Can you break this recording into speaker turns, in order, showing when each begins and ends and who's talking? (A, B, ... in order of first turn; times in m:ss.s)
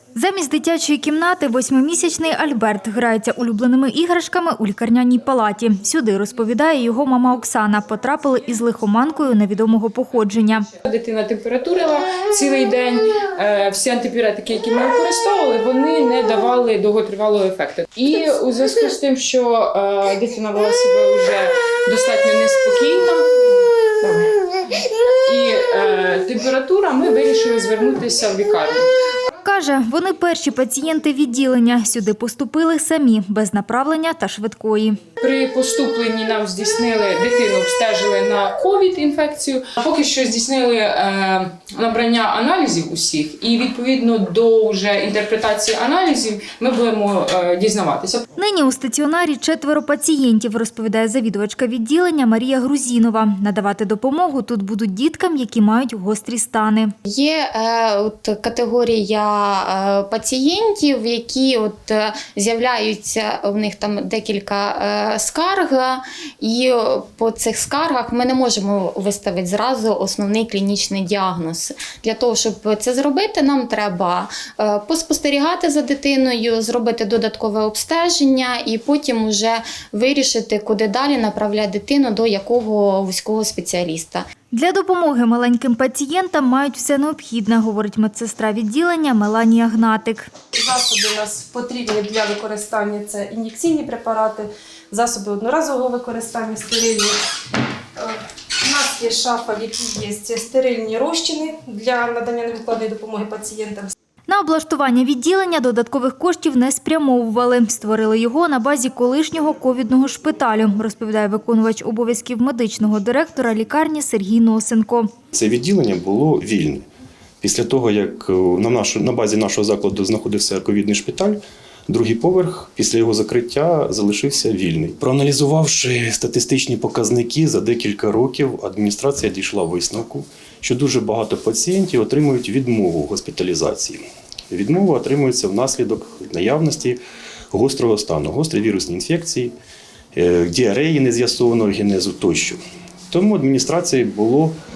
0:00.2-0:10.7 A
0:10.8-0:23.3 B
0:24.0-0:24.3 B
0:25.2-0:28.9 B
0:29.4-0:35.0 A
0:35.2-0:48.2 B
0:48.4-0:56.9 A
0:57.1-1:24.3 C
1:24.5-1:30.3 A
1:30.5-1:37.2 D
1:38.0-1:43.9 D
1:44.3-1:55.1 A
1:55.3-1:56.8 E
1:57.4-2:17.0 E
2:17.5-2:19.5 E
2:20.2-2:24.6 E